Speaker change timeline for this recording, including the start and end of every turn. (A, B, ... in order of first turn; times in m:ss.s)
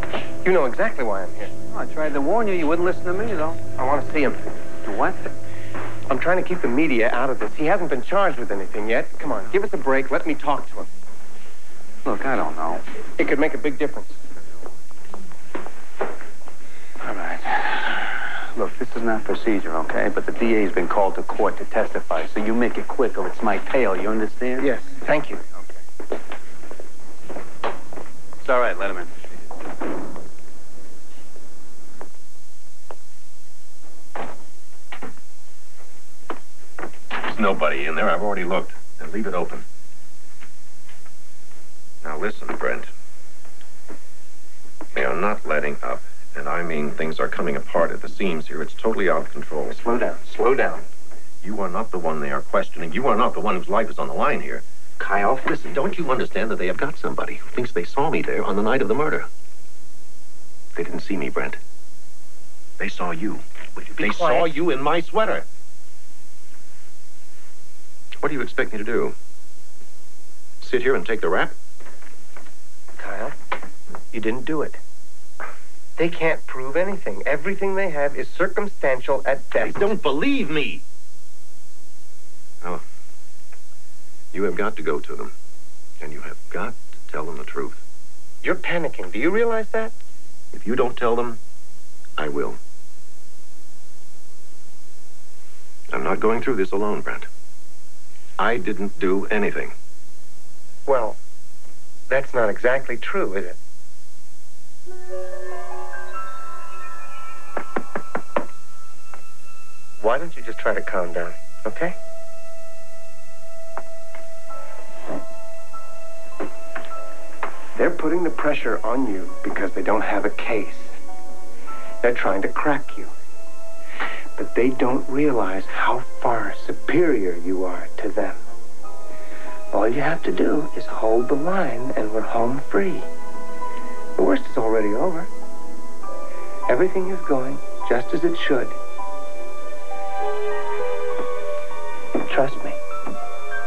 0:00.4-0:01.5 A
0:01.7-0:03.6 B
0:03.8-0:04.5 A
0:04.8-0:05.2 B
0:06.1-0:10.9 A
0:12.0-0:12.8 B
0:13.2-0:14.2 A
0:17.0-0:24.7 B
0:24.6-0:25.4 A
0:28.4-0:29.1 B
0:37.1-0:39.6 C
0:42.0-0:42.9 C
0:44.9-0:49.9 C
0:49.8-0:50.8 B
0:51.4-0:59.3 C
1:00.7-1:01.6 C
1:02.8-1:05.4 C
1:03.8-1:04.5 A
1:08.2-1:09.1 C
1:10.6-1:11.5 C
1:13.0-1:13.3 A
1:14.1-1:14.8 A
1:16.0-1:20.0 A
1:19.6-1:20.8 C
1:24.3-1:25.3 C
1:26.0-1:27.8 C
1:28.4-1:29.9 A
1:30.5-1:31.4 C
1:32.2-1:32.6 C
1:35.9-1:37.3 C
1:38.4-1:39.7 C
1:40.8-1:41.2 A
1:42.1-1:43.6 A
1:50.0-1:52.0 A
1:57.7-2:01.0 A
2:02.0-2:03.1 A
2:04.4-2:08.4 A
2:09.7-2:13.1 A
2:14.2-2:15.3 A
2:16.7-2:18.7 A
2:22.2-2:22.8 A